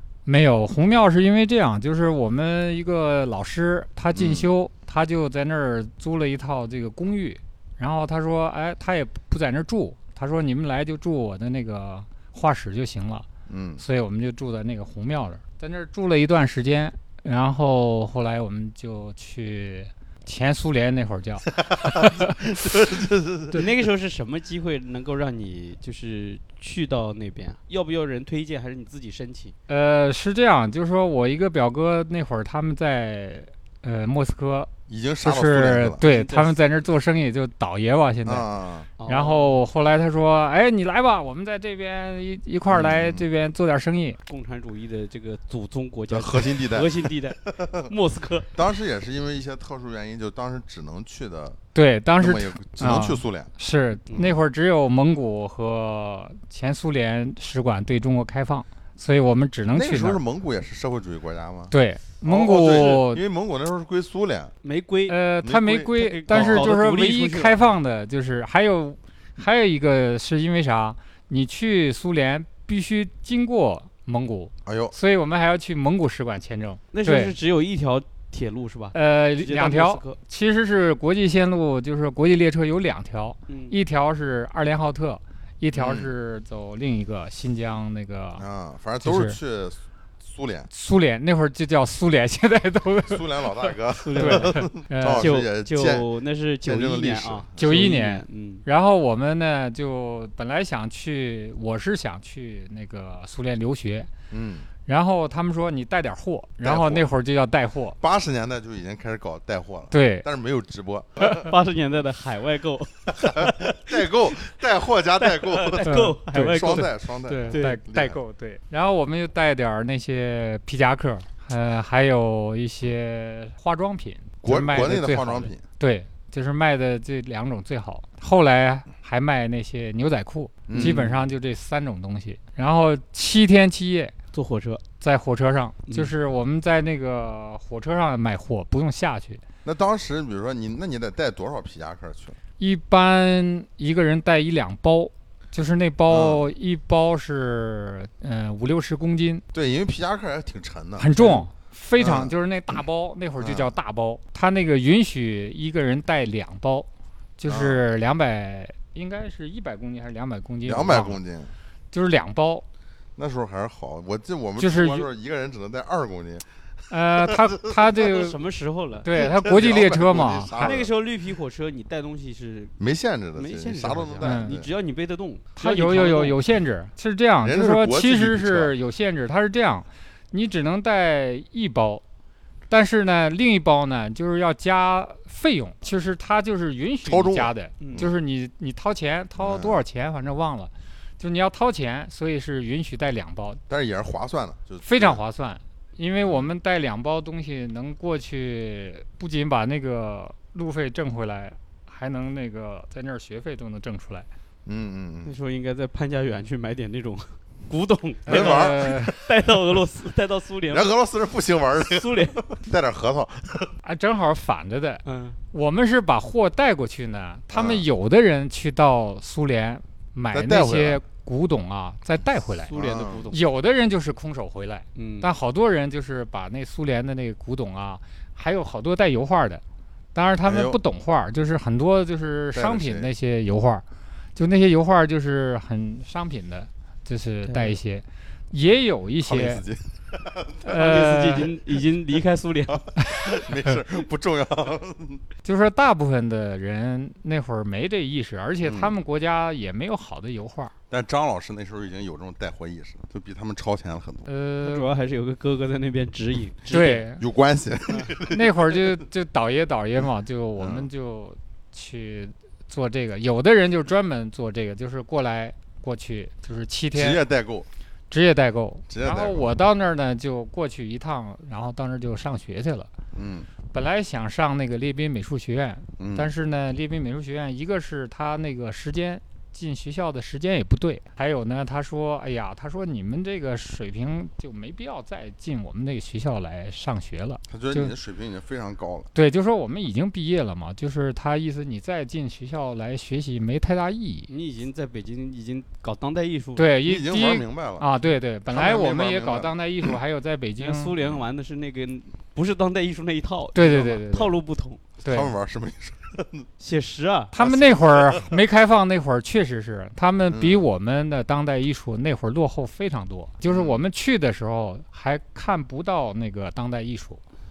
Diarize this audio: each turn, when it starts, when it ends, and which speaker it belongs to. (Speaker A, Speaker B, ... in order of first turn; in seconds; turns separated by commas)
Speaker A: 0.2-13.2, Speaker B: 4.1-4.5, Speaker B: 13.5-13.8, Speaker A: 13.8-22.5, Speaker B: 21.6-23.6, Speaker C: 23.5-29.5, Speaker A: 29.7-34.7, Speaker B: 34.9-36.0, Speaker A: 35.2-38.5, Speaker C: 36.0-36.6, Speaker B: 38.2-38.9, Speaker C: 39.0-39.6, Speaker A: 39.0-44.2, Speaker B: 42.7-43.2, Speaker C: 44.3-48.5, Speaker B: 46.1-47.9, Speaker B: 48.5-51.6, Speaker A: 51.7-60.2, Speaker B: 52.2-53.5, Speaker B: 54.1-54.4, Speaker B: 59.7-64.5, Speaker A: 61.7-63.2, Speaker C: 64.6-65.2, Speaker A: 65.1-77.3, Speaker B: 65.4-66.7, Speaker C: 66.0-67.6, Speaker B: 74.7-74.9, Speaker C: 76.9-80.2, Speaker A: 78.9-88.4, Speaker C: 83.5-83.8, Speaker B: 85.7-86.1, Speaker B: 88.4-90.7, Speaker A: 89.0-89.4, Speaker A: 90.7-95.3, Speaker B: 93.1-96.1, Speaker C: 94.0-98.7, Speaker B: 96.6-97.9, Speaker A: 97.6-104.1, Speaker B: 104.3-104.7, Speaker A: 104.8-108.0, Speaker B: 106.6-107.1, Speaker B: 108.0-111.5, Speaker A: 109.9-110.3, Speaker C: 111.2-114.4, Speaker B: 113.1-118.2, Speaker C: 115.2-117.8, Speaker A: 115.8-134.1, Speaker B: 124.4-125.6, Speaker B: 130.7-131.2, Speaker C: 130.7-131.2, Speaker C: 134.3-134.8, Speaker A: 135.0-139.4, Speaker B: 139.6-142.4, Speaker A: 142.6-149.4, Speaker B: 146.1-146.4, Speaker B: 149.5-151.4, Speaker A: 151.0-156.9, Speaker B: 152.0-152.3, Speaker B: 153.4-153.7, Speaker A: 157.4-161.2, Speaker B: 157.5-157.8, Speaker B: 160.6-161.5, Speaker A: 161.9-162.6, Speaker B: 163.2-167.8, Speaker A: 164.6-165.1, Speaker A: 166.9-168.4, Speaker C: 167.9-169.1, Speaker A: 169.0-170.7, Speaker B: 169.1-170.9, Speaker C: 170.5-172.8, Speaker B: 172.8-174.7, Speaker C: 173.3-176.4, Speaker A: 174.2-174.6, Speaker A: 175.6-182.0, Speaker B: 177.4-178.8, Speaker A: 182.7-193.6, Speaker B: 187.0-188.1, Speaker C: 187.8-188.1, Speaker B: 189.4-189.8, Speaker B: 193.7-195.2, Speaker A: 194.8-204.3, Speaker B: 204.7-205.3, Speaker C: 205.2-210.9, Speaker A: 208.2-209.2, Speaker B: 208.3-209.1, Speaker B: 210.7-213.7, Speaker C: 211.8-212.5, Speaker A: 213.8-222.7, Speaker C: 215.0-215.4, Speaker B: 217.5-217.8, Speaker B: 220.3-221.0, Speaker C: 222.5-223.4, Speaker B: 222.7-223.3, Speaker A: 223.3-229.6, Speaker C: 224.9-225.3, Speaker A: 230.1-233.8, Speaker B: 230.4-230.8, Speaker B: 232.5-233.1, Speaker A: 234.3-239.6, Speaker C: 237.5-237.8, Speaker B: 239.2-240.8, Speaker A: 240.6-241.5, Speaker C: 240.7-242.8, Speaker B: 243.1-245.2, Speaker A: 245.4-250.7, Speaker B: 248.6-248.9, Speaker B: 250.9-254.3, Speaker A: 254.2-254.9, Speaker C: 254.6-257.0, Speaker A: 256.7-257.2, Speaker B: 257.2-259.0, Speaker A: 258.2-267.2, Speaker B: 260.6-260.9, Speaker B: 266.9-267.7, Speaker A: 268.1-272.9, Speaker B: 268.9-269.5, Speaker B: 273.1-273.5, Speaker A: 273.7-287.9, Speaker B: 276.0-276.3, Speaker B: 287.5-289.1, Speaker A: 289.1-294.3, Speaker C: 294.3-296.7, Speaker A: 296.6-300.9, Speaker B: 296.8-297.9, Speaker B: 298.5-299.9, Speaker C: 300.6-304.8, Speaker A: 303.5-304.3, Speaker A: 305.0-305.3, Speaker B: 305.0-306.5, Speaker C: 306.6-307.3, Speaker A: 307.3-317.2, Speaker B: 307.4-308.3, Speaker B: 310.3-310.6, Speaker B: 313.4-313.8